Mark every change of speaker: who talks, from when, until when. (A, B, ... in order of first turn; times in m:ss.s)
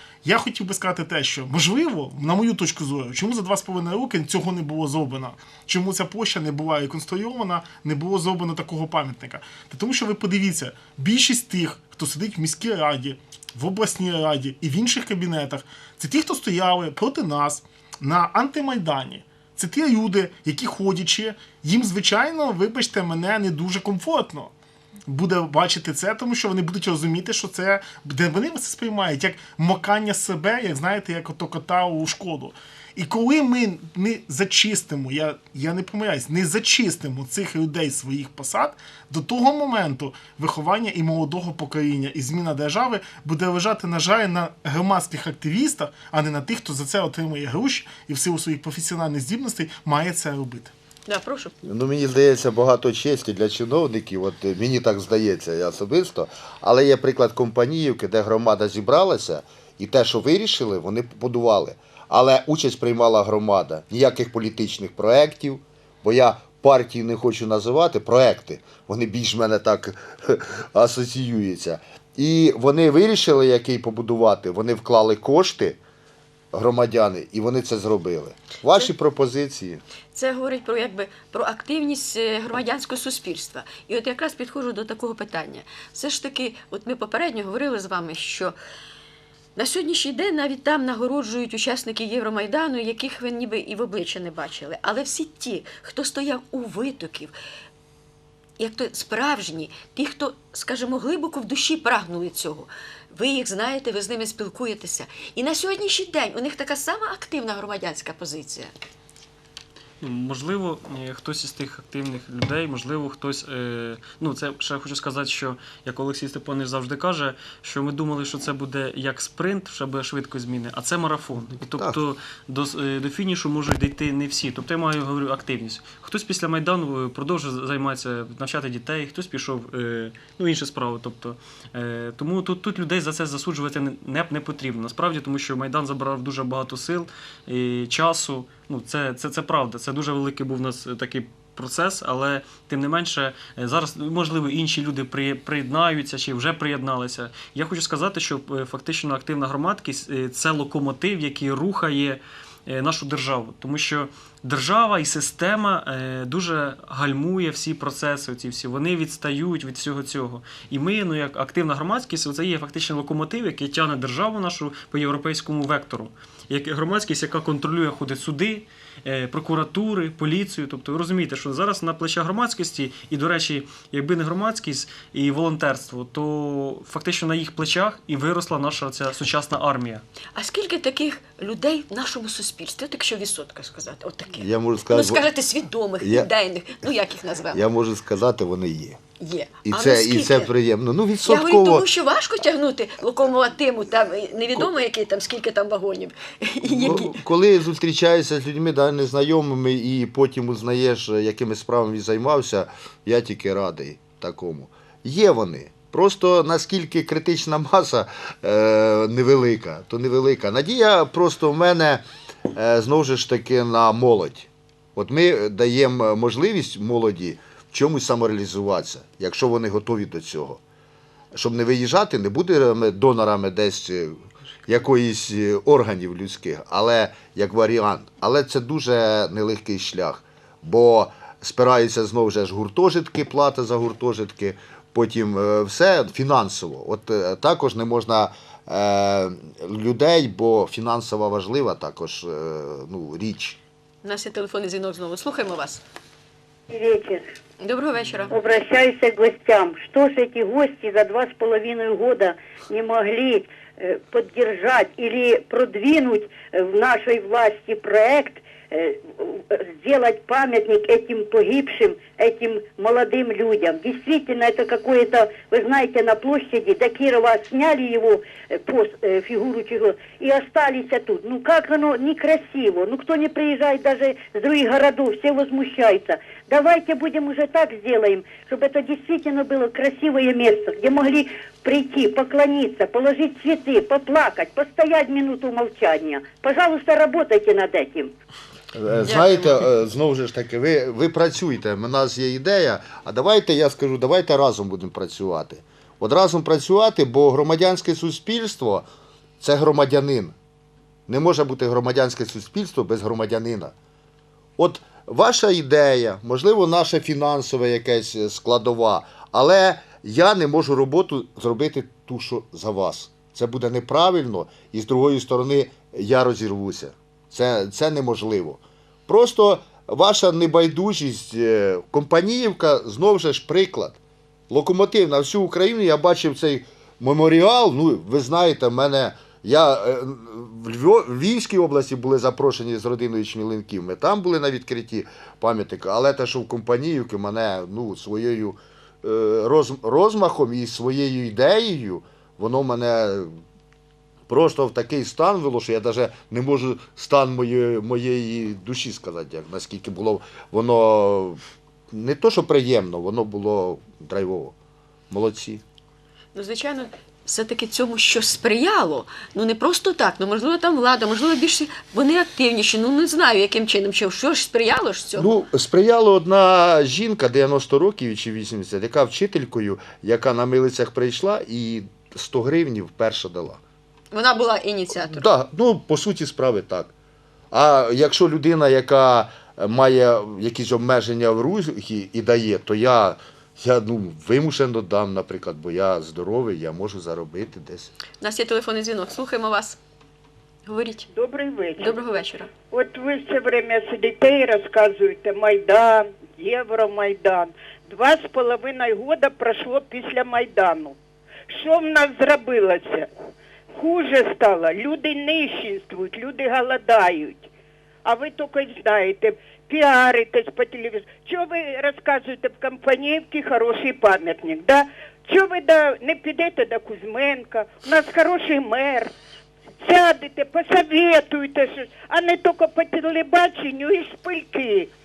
0:00.2-0:24.5 A
0:25.1-0:50.7 A
0:51.1-0:51.5 B
0:51.6-1:15.8 C
1:16.5-1:19.8 C
1:20.1-1:28.6 B
1:29.6-1:37.3 B
1:38.6-1:48.7 B
1:50.0-3:00.0 D
3:00.4-3:07.6 B
3:04.4-3:05.2 C
3:06.0-3:06.3 C
3:07.5-3:09.0 C
3:09.2-3:10.5 B
3:09.6-3:11.9 C
3:11.2-3:17.2 B
3:16.6-3:40.6 C
3:41.3-4:03.6 C
4:04.0-4:05.8 B
4:06.7-4:07.2 E
4:07.6-4:08.4 B
4:08.3-4:48.1 E
4:48.8-4:58.9 C
4:49.0-4:49.6 B
4:59.4-5:00.3 C
5:01.1-5:03.7 C
5:04.6-5:24.0 C
5:24.5-5:43.3 C
5:44.3-5:54.6 C
5:55.1-5:55.6 C
5:56.4-6:05.3 B
6:05.2-6:13.6 C
6:14.1-6:15.3 B
6:14.9-6:16.9 C
6:17.5-6:27.9 C
6:28.2-6:29.8 B
6:30.7-6:31.1 B
6:31.1-6:41.0 F
6:31.8-6:32.5 B
6:41.5-6:43.1 F
6:43.8-6:47.5 F
6:48.0-6:59.1 F
6:59.8-7:04.9 F